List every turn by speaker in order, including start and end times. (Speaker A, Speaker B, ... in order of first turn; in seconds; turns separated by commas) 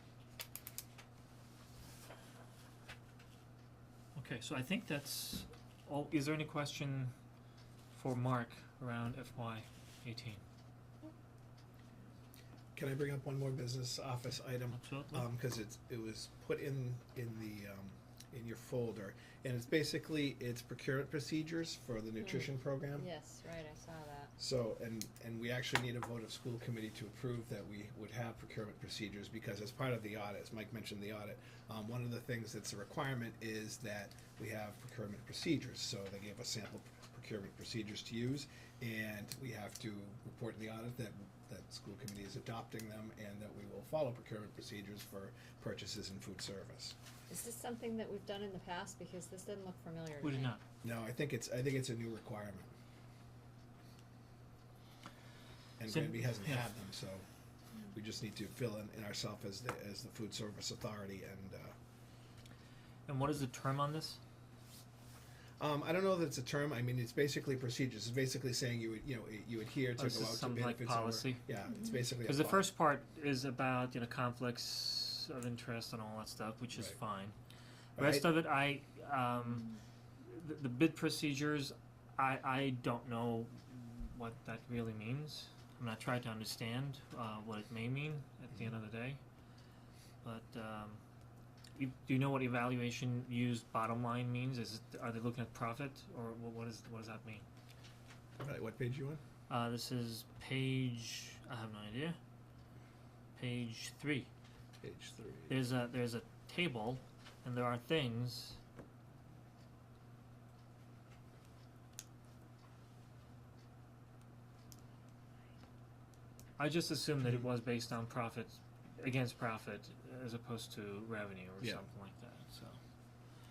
Speaker A: 4.1-7.1, Speaker A: 7.9-10.4, Speaker B: 12.7-23.1, Speaker A: 14.7-15.3, Speaker C: 22.2-24.3, Speaker B: 24.4-47.0, Speaker C: 47.3-50.5, Speaker A: 50.2-50.6, Speaker B: 50.8-52.7, Speaker B: 55.8-57.2, Speaker A: 55.9-56.8, Speaker B: 57.9-61.7, Speaker A: 63.1-64.2, Speaker B: 65.6-72.7, Speaker A: 70.0-71.4, Speaker A: 72.2-77.3, Speaker B: 78.0-78.3, Speaker A: 78.0-79.7, Speaker A: 80.2-89.2, Speaker A: 90.2-91.0, Speaker A: 91.8-97.4, Speaker B: 98.4-99.2, Speaker A: 99.5-102.2, Speaker A: 103.3-104.3, Speaker B: 104.8-105.7, Speaker A: 105.5-108.6, Speaker A: 116.6-122.8